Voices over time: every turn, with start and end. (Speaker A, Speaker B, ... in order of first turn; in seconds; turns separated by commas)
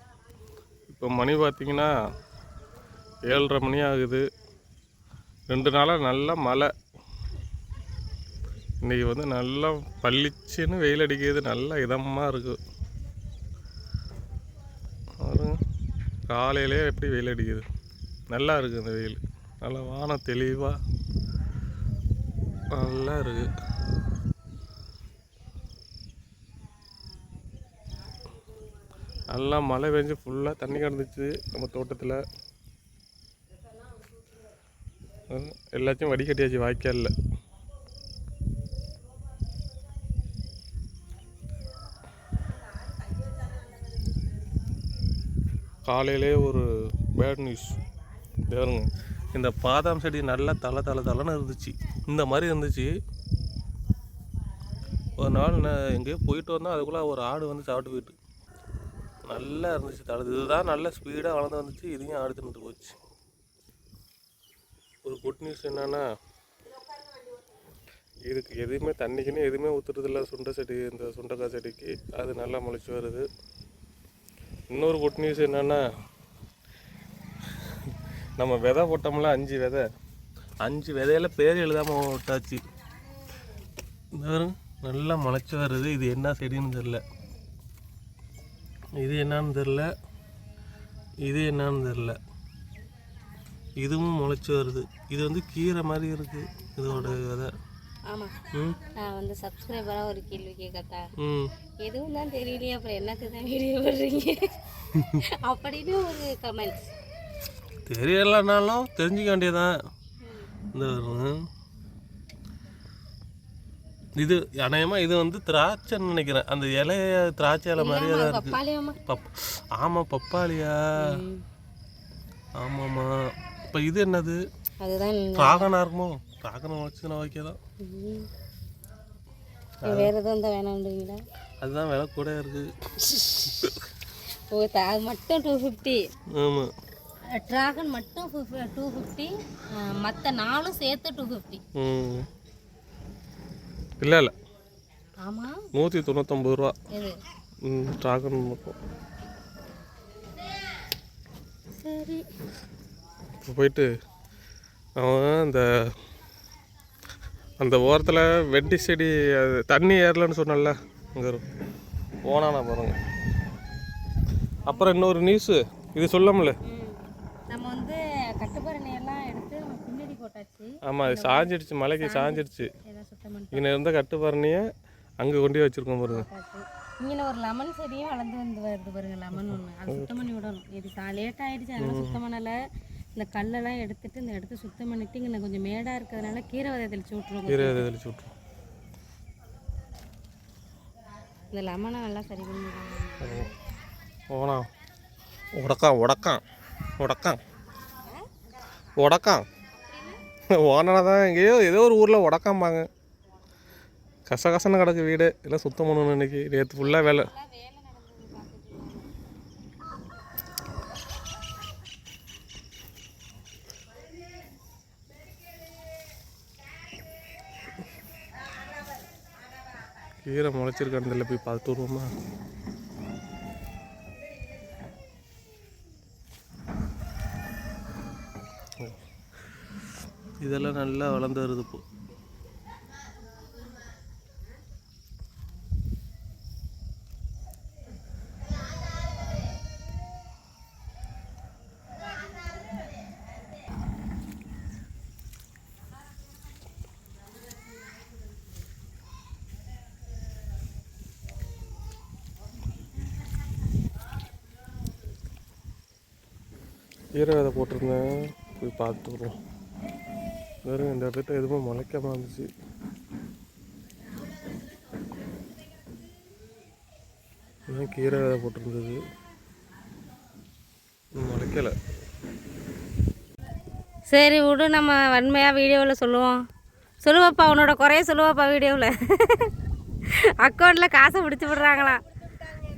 Speaker A: 0.9-1.9, Speaker A: 3.2-4.2, Speaker A: 5.5-6.7, Speaker A: 8.8-12.6, Speaker A: 15.2-15.6, Speaker A: 16.3-17.6, Speaker A: 18.3-20.8, Speaker A: 22.7-23.5, Speaker A: 29.3-32.2, Speaker A: 35.3-37.1, Speaker A: 45.9-47.8, Speaker A: 48.5-52.9, Speaker A: 55.2-58.2, Speaker A: 59.2-63.0, Speaker A: 65.0-66.0, Speaker A: 68.3-73.3, Speaker A: 74.7-75.8, Speaker A: 77.5-79.8, Speaker A: 80.6-82.6, Speaker A: 84.2-87.0, Speaker A: 89.0-89.9, Speaker A: 91.2-92.2, Speaker A: 93.8-97.5, Speaker B: 96.9-97.2, Speaker B: 98.1-98.3, Speaker A: 98.5-98.8, Speaker B: 98.9-101.1, Speaker A: 101.2-101.5, Speaker B: 101.8-104.5, Speaker B: 105.1-106.8, Speaker A: 107.9-109.8, Speaker A: 110.7-111.4, Speaker A: 114.2-118.5, Speaker B: 117.8-119.0, Speaker A: 119.1-120.8, Speaker B: 121.0-121.4, Speaker A: 122.6-123.2, Speaker A: 123.7-124.4, Speaker B: 124.8-125.7, Speaker A: 125.4-127.6, Speaker B: 127.8-128.3, Speaker B: 129.8-131.2, Speaker A: 131.6-132.7, Speaker B: 134.5-136.0, Speaker A: 136.3-136.7, Speaker B: 137.3-141.6, Speaker A: 141.8-142.3, Speaker A: 144.0-144.3, Speaker B: 145.2-145.6, Speaker A: 145.7-146.7, Speaker B: 146.9-147.2, Speaker A: 147.6-148.8, Speaker B: 151.8-152.2, Speaker A: 153.4-153.9, Speaker A: 155.0-155.7, Speaker A: 157.6-161.4, Speaker A: 162.2-163.0, Speaker A: 164.7-166.6, Speaker B: 166.6-171.5, Speaker A: 170.9-172.7, Speaker B: 172.0-173.7, Speaker A: 173.5-174.6, Speaker A: 175.2-176.3, Speaker B: 176.1-182.6, Speaker A: 179.4-180.1, Speaker A: 181.8-182.2, Speaker B: 183.2-187.8, Speaker A: 187.5-188.3, Speaker B: 191.5-193.5, Speaker A: 193.2-193.5, Speaker A: 194.3-194.7, Speaker A: 195.6-196.4, Speaker A: 197.0-197.4, Speaker A: 199.0-199.4, Speaker B: 199.8-200.2, Speaker A: 200.5-202.9, Speaker A: 204.3-207.3, Speaker B: 206.8-209.1, Speaker A: 220.2-222.1, Speaker A: 230.4-231.8, Speaker A: 257.1-259.4, Speaker A: 260.6-262.5, Speaker A: 267.7-269.0, Speaker A: 271.1-271.7, Speaker B: 274.1-276.4, Speaker B: 277.0-279.5, Speaker B: 280.1-282.0